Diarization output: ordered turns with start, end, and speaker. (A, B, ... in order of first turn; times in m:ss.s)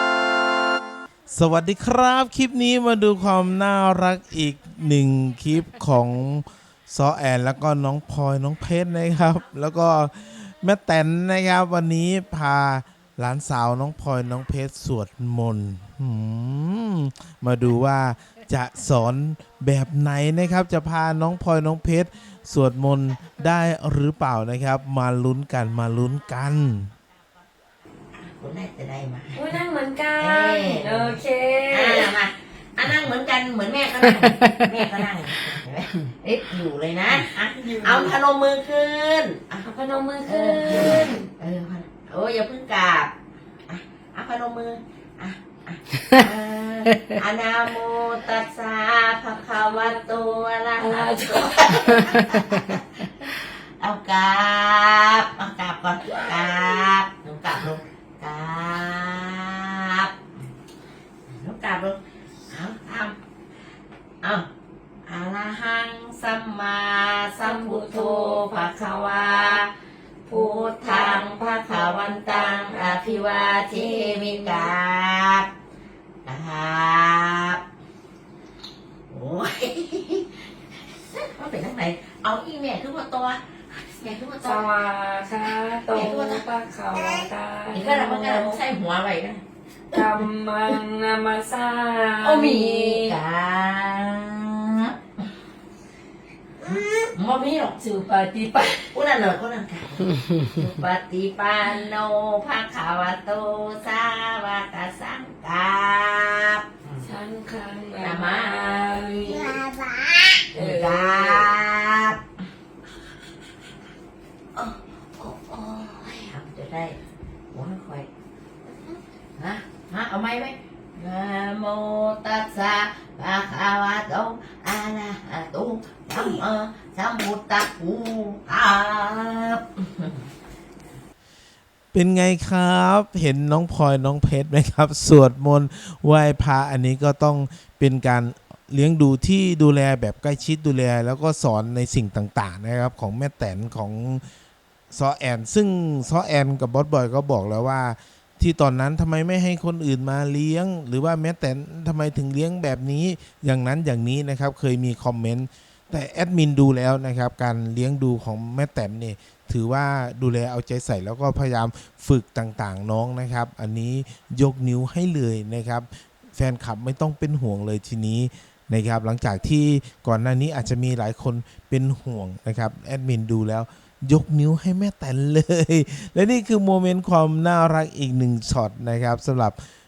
0:01.3-0:26.9 A
0:28.2-0:29.5 B
0:29.4-0:32.1 C
0:30.2-0:39.7 B
0:34.2-0:34.7 C
0:37.2-0:38.2 C
0:39.6-0:41.3 C
0:40.2-0:43.1 B
0:43.7-1:00.2 B
0:50.8-0:52.4 C
1:01.3-1:03.2 B
1:04.2-1:04.5 B
1:05.0-1:09.7 B
1:07.4-1:09.6 C
1:10.3-1:14.7 C
1:10.3-1:15.5 B
1:16.2-1:17.6 B
1:19.1-1:24.7 B
1:24.4-1:28.6 C
1:25.9-1:30.1 B
1:29.9-1:33.2 C
1:32.2-1:35.0 B
1:36.6-1:47.1 B
1:36.7-1:37.0 C
1:38.5-1:38.9 C
1:47.0-1:49.6 C
1:48.0-1:52.2 B
1:50.6-1:51.5 C
1:54.6-1:57.0 B
1:57.5-1:58.1 B
1:58.7-2:10.2 B
2:11.9-2:24.3 A
2:24.9-2:59.6 A